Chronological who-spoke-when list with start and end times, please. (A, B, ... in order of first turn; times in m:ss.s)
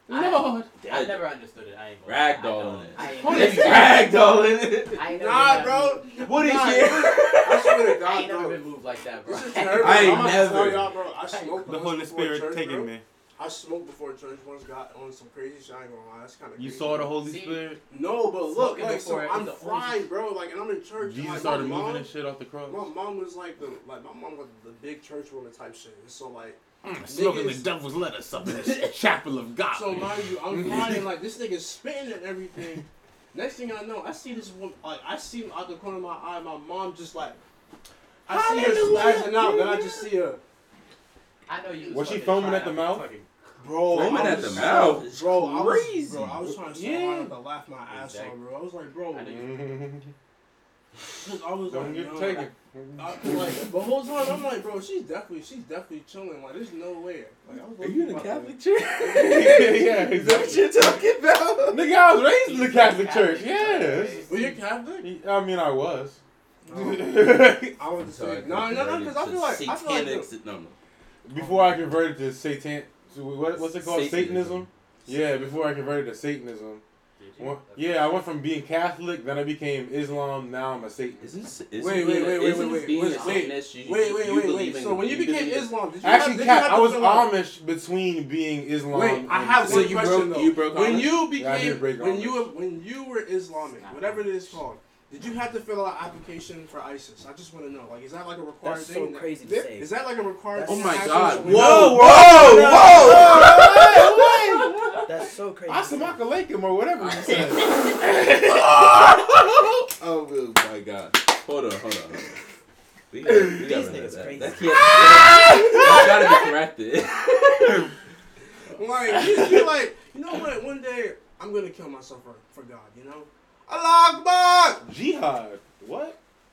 0:00.1-0:00.7 A
0:00.1-0:04.1 B
0:00.6-0:01.3 C
0:02.0-0:05.0 C
0:03.0-0:04.1 A
0:04.9-0:06.1 B
0:05.1-0:17.3 D
0:06.2-0:08.0 C
0:08.0-0:10.5 B
0:09.8-0:10.9 C
0:09.8-0:10.8 A
0:11.2-0:11.7 B
0:11.7-0:13.0 A
0:16.6-0:17.8 A
0:17.2-0:17.8 B
0:17.9-0:22.1 D
0:18.5-0:20.0 B
0:21.0-0:22.9 A
0:22.7-0:27.6 D
0:26.8-0:31.1 A
0:29.7-0:37.4 D
0:38.3-0:40.4 D
0:38.6-0:39.3 A
0:41.5-0:43.3 B
0:41.9-0:43.1 A
0:43.6-0:49.5 D
0:43.9-0:46.4 C
0:46.5-0:47.3 A
0:47.9-0:48.4 B
0:49.2-0:50.1 A
0:51.2-0:59.5 D
0:51.6-0:53.7 A
0:57.6-0:58.2 A
0:57.8-1:01.8 C
0:59.0-1:00.6 A
1:00.2-1:01.0 B
1:01.7-1:04.3 A
1:02.4-1:04.6 B
1:04.3-1:05.1 D
1:05.0-1:06.2 A
1:06.6-1:10.3 D
1:06.7-1:07.8 A
1:08.0-1:10.8 C
1:11.3-1:16.8 A
1:11.4-1:11.8 D
1:13.6-1:14.7 C
1:17.2-1:18.3 B
1:17.4-1:21.3 A
1:21.2-1:25.7 C
1:21.8-1:27.4 D
1:22.9-1:23.4 B
1:26.0-1:30.1 A
1:28.9-1:42.1 D
1:29.6-1:31.3 C
1:31.2-1:32.5 A
1:33.7-1:34.6 B
1:38.6-1:40.0 B
1:40.5-1:43.6 B
1:40.7-1:45.0 C
1:41.4-1:44.8 A
1:45.0-1:46.2 B
1:45.7-1:47.8 A
1:47.0-1:52.3 C
1:53.1-1:57.9 C
1:53.2-1:56.1 B
1:55.0-1:56.2 A
1:58.8-2:04.8 D
1:59.1-1:59.6 C
2:04.8-2:06.2 A